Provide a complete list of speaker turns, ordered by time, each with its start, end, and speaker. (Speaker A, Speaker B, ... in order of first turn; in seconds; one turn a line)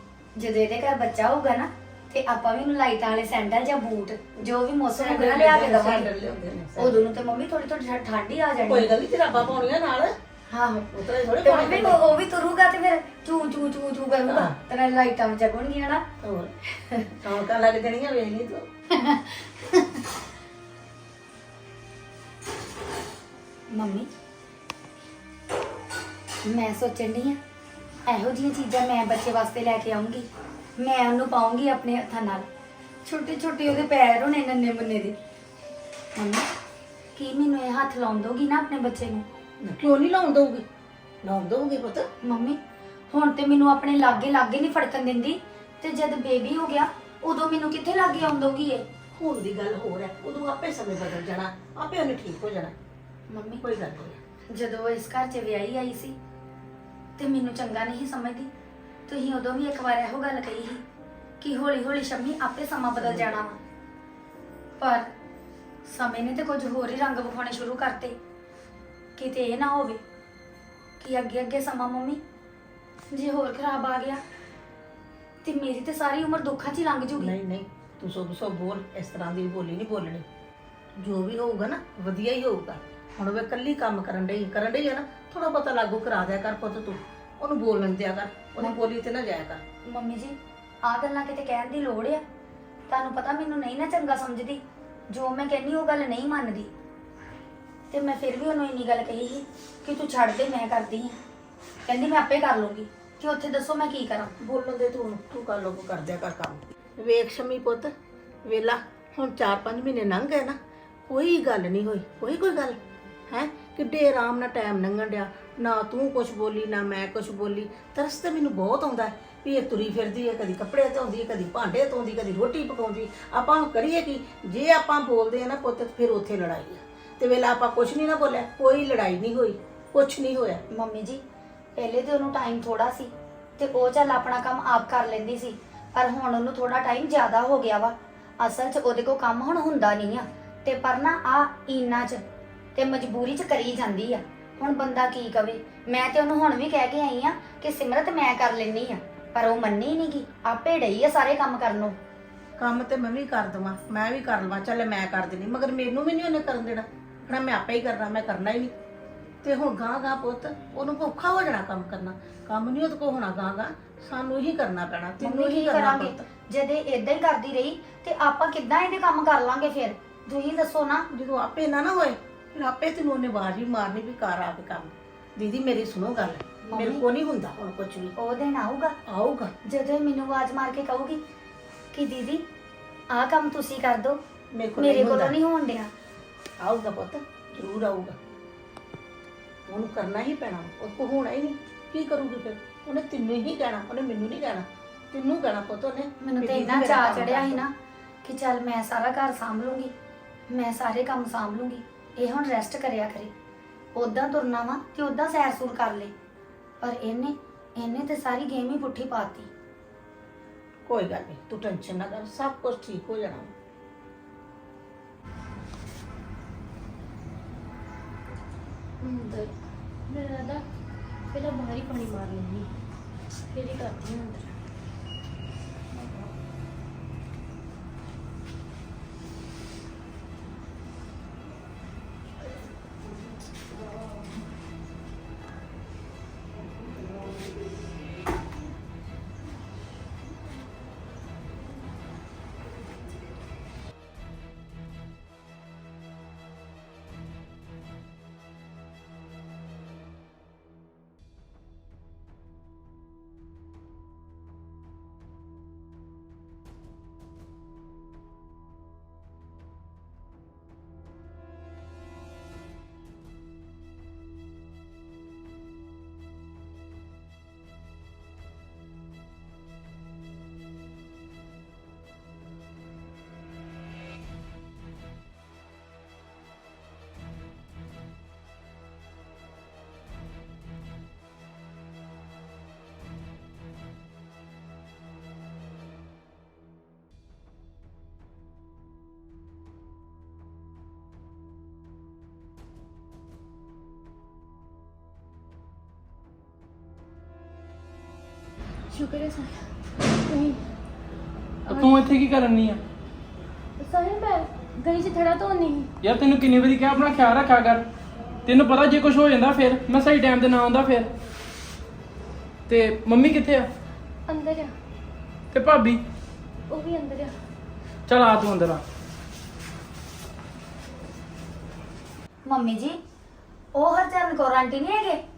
Speaker A: 0.3-6.1
Speaker B: 4.9-7.1
Speaker A: 6.8-8.9
Speaker B: 8.7-10.1
Speaker A: 10.5-10.9
Speaker B: 10.9-12.0
Speaker A: 11.4-16.0
Speaker B: 14.3-14.5
Speaker B: 16.2-16.5
Speaker A: 16.7-17.1
Speaker B: 17.2-18.7
Speaker A: 18.9-19.9
Speaker A: 23.7-24.1
Speaker A: 26.4-27.4
Speaker A: 28.1-30.2
Speaker A: 30.8-32.5
Speaker A: 33.0-35.1
Speaker A: 36.1-36.5
Speaker A: 37.1-39.2
Speaker B: 39.6-40.6
Speaker B: 41.2-42.1
Speaker A: 42.2-42.6
Speaker A: 43.1-48.8
Speaker B: 49.1-52.7
Speaker A: 53.3-53.6
Speaker B: 53.6-54.2
Speaker A: 54.5-56.1
Speaker A: 57.2-58.5
Speaker A: 59.1-60.8
Speaker A: 61.4-63.6
Speaker B: 63.0-63.4
Speaker A: 64.8-65.1
Speaker A: 65.8-68.2
Speaker A: 69.2-70.0
Speaker A: 71.0-72.2
Speaker A: 73.1-74.2
Speaker A: 75.4-77.3
Speaker B: 77.2-80.2
Speaker B: 81.0-89.6
Speaker A: 89.8-92.2
Speaker A: 92.9-96.7
Speaker A: 97.9-101.2
Speaker A: 101.8-104.3
Speaker B: 104.4-107.9
Speaker B: 108.4-110.6
Speaker B: 111.1-112.8
Speaker B: 113.3-130.6
Speaker A: 130.7-131.2
Speaker A: 131.8-142.2
Speaker A: 142.7-151.9
Speaker B: 152.6-158.7
Speaker B: 159.4-166.2
Speaker A: 165.2-171.1
Speaker B: 171.1-178.1
Speaker A: 176.6-177.0
Speaker A: 178.2-178.9
Speaker B: 179.1-179.5
Speaker A: 179.6-181.2
Speaker A: 181.9-182.4
Speaker A: 183.1-184.2
Speaker B: 184.5-185.3
Speaker A: 184.8-185.9
Speaker B: 186.6-188.2
Speaker B: 189.7-197.6
Speaker A: 196.2-197.7
Speaker A: 198.2-199.9
Speaker A: 200.5-203.3
Speaker A: 203.9-206.1
Speaker A: 206.8-209.5
Speaker B: 210.8-213.5
Speaker C: 219.0-219.5
Speaker C: 220.1-220.6
Speaker C: 221.3-222.7
Speaker C: 223.5-224.5
Speaker C: 298.9-300.6
Speaker D: 301.7-302.8
Speaker C: 301.7-302.0
Speaker C: 303.8-305.9
Speaker D: 306.0-307.8
Speaker D: 308.4-311.1
Speaker D: 312.7-313.7
Speaker C: 314.3-314.7
Speaker D: 315.5-316.0
Speaker C: 316.7-317.3
Speaker D: 318.1-318.8
Speaker A: 322.4-323.0
Speaker A: 323.7-325.2